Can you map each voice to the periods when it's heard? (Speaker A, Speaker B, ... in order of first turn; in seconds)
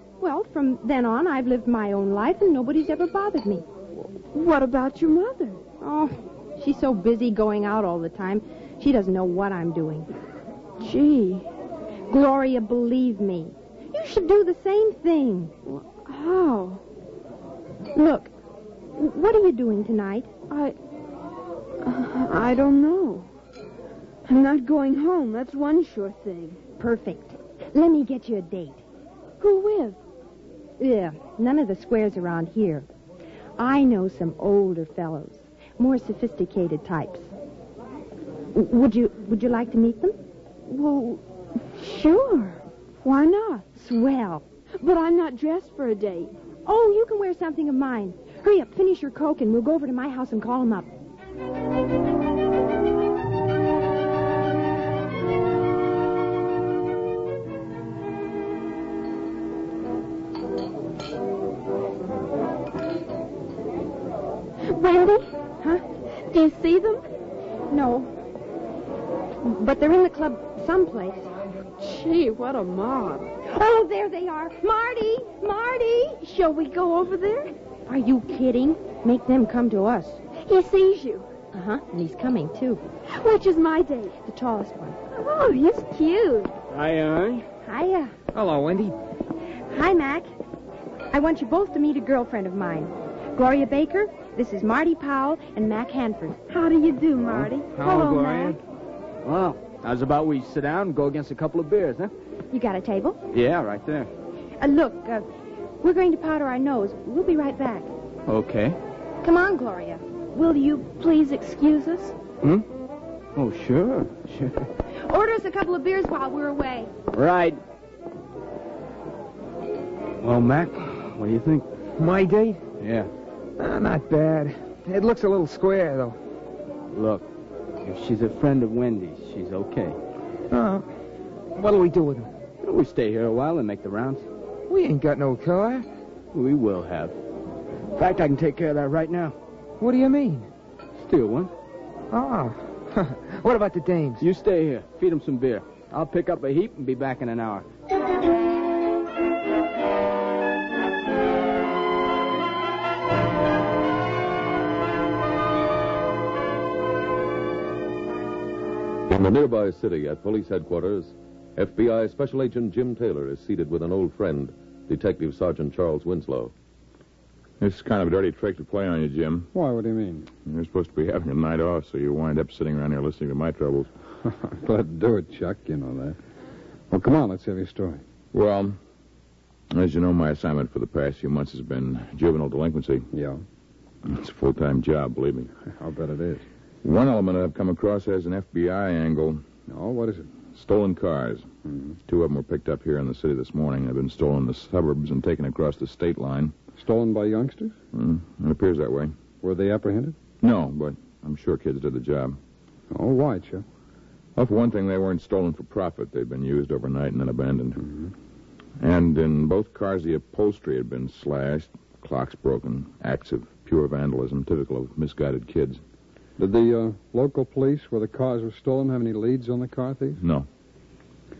Speaker A: 0.2-3.6, 5.8-10.1, 12.1-15.5, 17.9-18.3, 18.9-20.3, 26.8-28.8, 30.8-32.9, 33.6-37.3, 38.5-40.2, 43.8-44.4, 46.6-50.9, 67.7-68.1, 69.4-71.3, 73.5-76.2, 77.9-80.2, 81.5-82.8, 84.2-85.0, 87.6-88.1, 89.7-90.3, 91.1-96.4, 102.5-103.2, 104.6-105.3, 105.8-107.9, 109.2-110.0, 115.1-116.9
Speaker B: 4.2-5.6, 10.8-11.4, 15.7-16.8, 20.5-20.8, 21.8-23.3, 24.3-26.6, 29.4-30.0, 40.7-43.6, 44.8-46.3, 64.7-65.3, 66.3-67.0, 71.8-73.3, 76.2-77.5, 80.4-81.3, 83.1-84.2, 85.1-86.5, 96.5-98.6, 110.3-112.2
Speaker C: 86.7-87.5, 99.2-102.1, 103.3-104.1, 108.3-108.8, 113.3-114.7, 117.1-117.6, 120.2-121.7, 122.8-123.1, 126.9-127.3, 127.8-130.0, 132.6-134.2, 136.3-137.2, 137.9-139.3, 140.9-141.5, 144.2-147.7
Speaker D: 88.3-89.0, 97.3-98.6, 122.0-122.6, 123.6-126.2, 130.5-130.9, 131.5-132.3, 134.7-135.8, 139.8-140.5, 142.1-144.2
Speaker E: 159.1-166.5
Speaker F: 167.6-169.5, 170.4-173.9, 178.3-178.8, 179.7-183.1, 184.0-185.5, 186.8-189.4, 190.5-191.5, 192.1-196.5, 197.9-199.1, 200.4-202.4, 204.3-207.8, 208.8-215.8, 220.2-220.4
Speaker G: 169.5-170.3, 174.2-176.2, 176.9-178.0, 183.1-183.4, 185.6-186.4, 189.7-190.4, 191.6-192.0, 196.8-197.8, 199.4-200.2, 202.9-203.6, 216.4-220.2